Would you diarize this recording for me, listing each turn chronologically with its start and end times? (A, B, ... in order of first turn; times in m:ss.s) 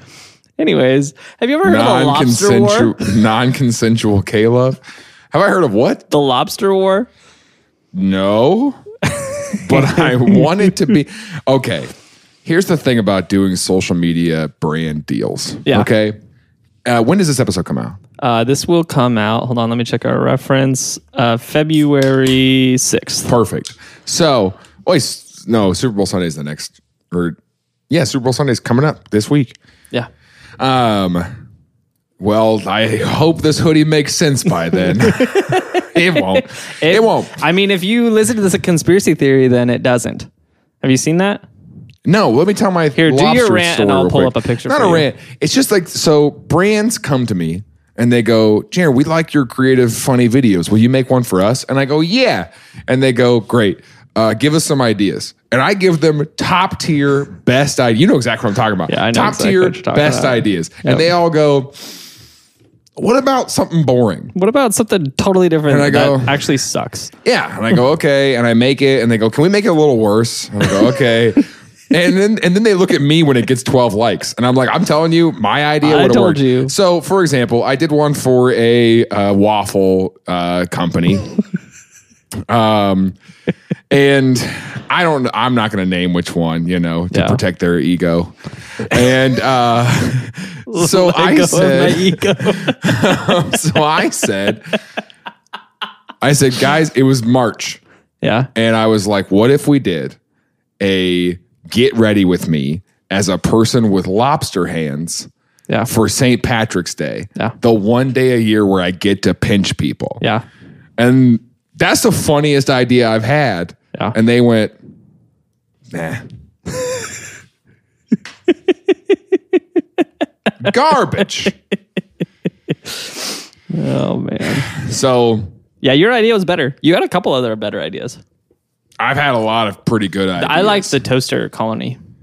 0:00.6-0:03.2 A
0:01.6-0:04.8 B
0:05.3-0:06.0 B
0:06.1-0:07.1 A
0:07.9-0:08.8 B
0:09.1-0:10.7 A
0:09.5-0:11.9 B
0:12.4-0:16.2 B
0:16.9-0:18.0 B
0:18.2-0:23.3 A
0:23.2-0:27.4 B
0:27.9-0:29.6 B
0:30.6-0:31.3 B
0:32.2-0:37.4 B
0:34.8-0:40.3 A
0:40.8-0:41.4 A
0:42.1-1:01.9 B
0:43.0-0:45.1 A
0:58.9-1:01.1 A
1:03.0-1:04.3 B
1:04.4-1:07.1 A
1:05.7-1:06.4 B
1:07.2-1:21.3 B
1:15.8-1:16.7 A
1:22.5-1:23.2 B
1:23.9-1:28.4 B
1:27.1-1:27.4 A
1:28.9-1:34.8 B
1:30.7-1:32.8 A
1:36.2-1:37.8 B
1:38.2-1:38.5 A
1:38.6-1:40.2 B
1:40.8-1:45.3 B
1:45.9-1:50.2 B
1:51.0-1:54.8 B
1:55.9-1:56.2 B
1:56.8-1:57.1 A
1:58.7-2:00.0 A
2:00.6-2:01.5 B
2:02.9-2:04.7 A
2:04.7-2:05.5 B
2:05.8-2:08.2 A
2:09.0-2:10.9 B
2:10.4-2:12.0 A